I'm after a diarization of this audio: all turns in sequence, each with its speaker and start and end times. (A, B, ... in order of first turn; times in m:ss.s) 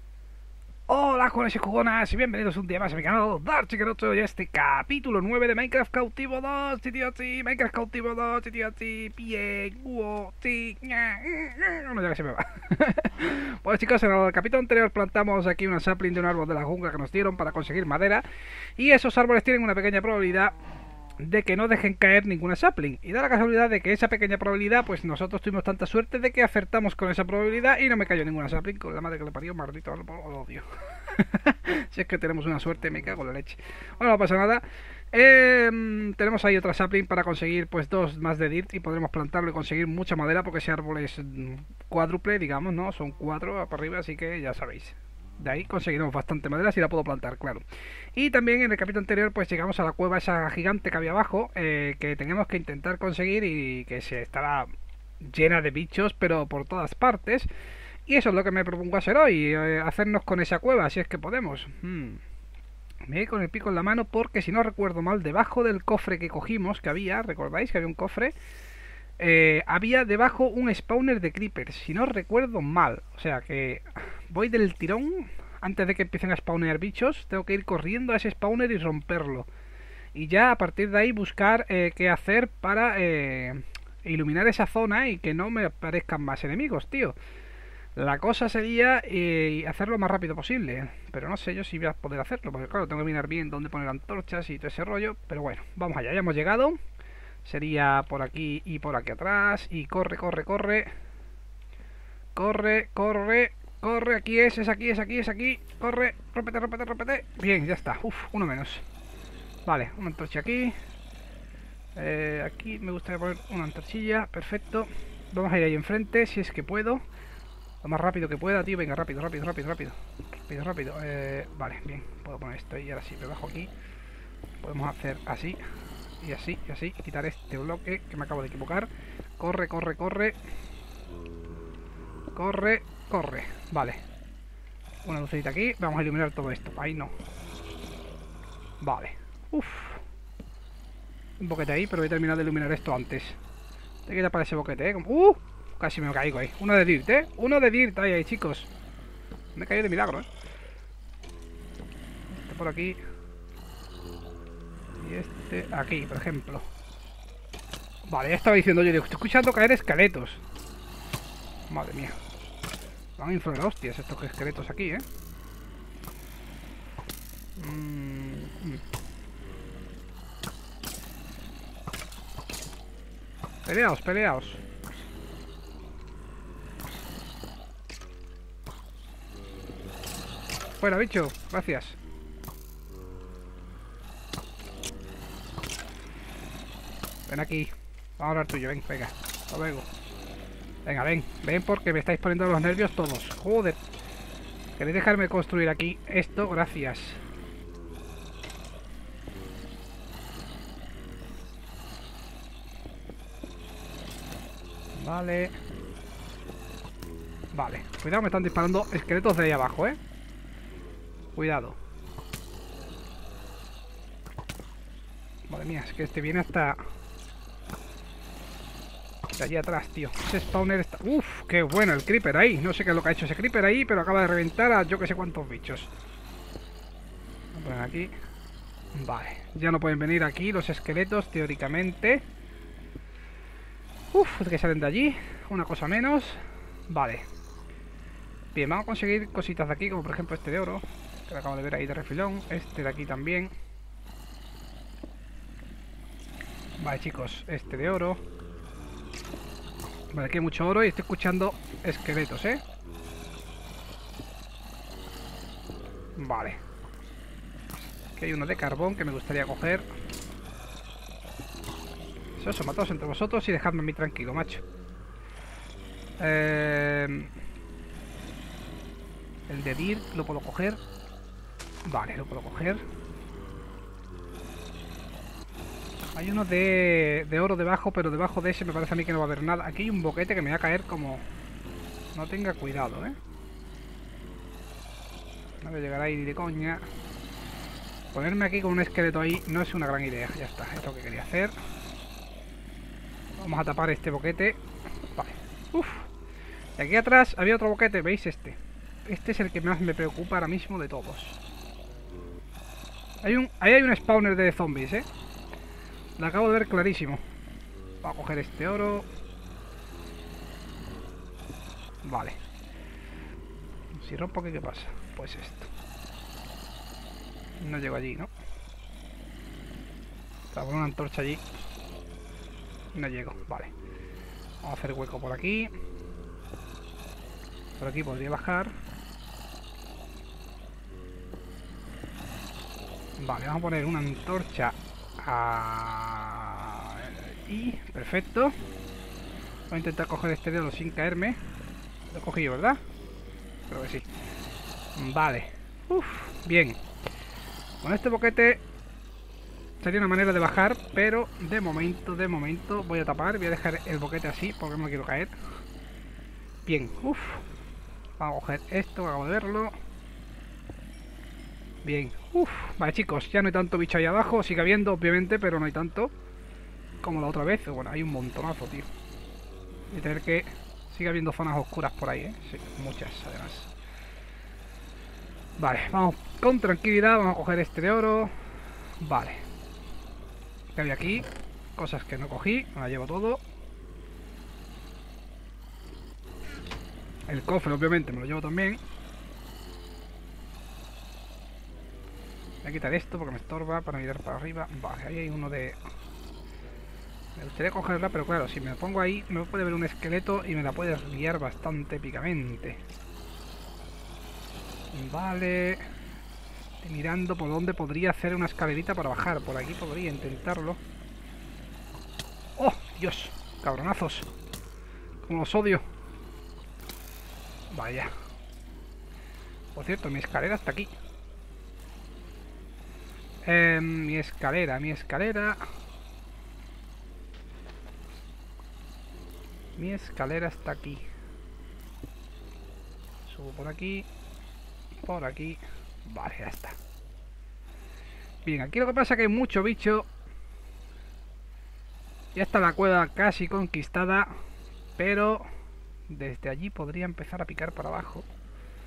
0:00.9-0:18.2 A
0:18.8-0:20.5 A
0:21.2-0:47.6 A
0:48.2-0:54.7 A
0:55.2-0:57.5 A
0:58.1-1:02.2 A
1:03.0-1:08.3 A
1:09.2-1:19.5 A
1:20.1-1:27.2 A
1:28.0-1:36.8 A
1:37.4-1:40.9 A
1:42.3-1:48.8 A
1:49.6-1:50.7 A
1:52.0-1:57.0 A
1:57.8-2:03.7 A
2:04.6-2:05.6 A
2:06.2-2:10.4 A
2:12.3-2:14.0 A
2:15.0-2:17.1 A
2:18.8-2:20.0 A
2:21.4-2:23.4 A
2:24.1-2:28.7 A
2:29.5-2:30.3 A
2:32.3-2:33.0 A
2:35.0-2:36.7 A
2:38.1-2:40.4 A
2:41.7-2:42.2 A
2:43.2-2:45.0 A
2:47.6-2:48.8 A
2:53.6-2:54.6 A
3:00.8-3:02.0 A
3:07.3-3:09.9 A
3:10.8-3:13.8 A
3:14.8-3:17.2 A
3:24.9-3:25.6 A
3:27.5-3:30.0 A
3:31.3-3:31.8 A
3:35.5-3:36.8 A
3:39.4-3:45.9 A
3:47.5-3:48.1 A
3:48.9-3:52.2 A
3:54.1-3:57.3 A
3:58.5-4:03.5 A
4:06.8-4:08.2 A
4:10.1-4:12.6 A
4:16.2-4:16.6 A
4:18.2-4:19.9 A
4:22.4-4:24.6 A
4:26.2-4:27.3 A
4:29.5-4:30.8 A
4:31.8-4:32.8 A
4:36.2-4:41.2 A
4:42.1-4:43.2 A
4:45.6-4:46.8 A
4:48.1-4:51.5 A
4:53.4-4:54.6 A
4:55.1-4:56.1 A
4:56.8-5:01.4 A
5:03.2-5:05.0 A
5:06.2-5:07.2 A
5:08.0-5:09.1 A
5:12.0-5:12.4 A
5:13.9-5:15.7 A
5:17.6-5:18.3 A
5:20.5-5:21.4 A
5:22.9-5:23.7 A
5:24.6-5:25.7 A
5:27.8-5:28.7 A
5:33.2-5:38.6 A
5:39.7-5:41.4 A
5:42.1-5:42.8 A
5:43.7-5:44.1 A
5:45.0-5:46.8 A
5:47.8-5:48.6 A
5:49.8-5:55.3 A
5:56.6-5:57.4 A
5:58.2-5:59.7 A
6:01.8-6:06.1 A
6:07.0-6:08.8 A
6:09.9-6:13.7 A
6:15.6-6:18.3 A
6:19.0-6:19.4 A
6:20.7-6:23.4 A
6:27.3-6:28.8 A
6:32.6-6:35.8 A
6:37.4-6:42.8 A
6:44.9-6:45.8 A
6:46.8-6:50.8 A
6:52.6-6:54.3 A
6:55.2-6:55.8 A
6:57.7-6:58.1 A
6:59.8-7:00.9 A
7:03.4-7:05.6 A
7:09.8-7:11.0 A
7:13.3-7:14.1 A
7:15.0-7:16.8 A
7:18.4-7:20.1 A
7:22.3-7:24.3 A
7:25.0-7:25.4 A
7:26.1-7:28.2 A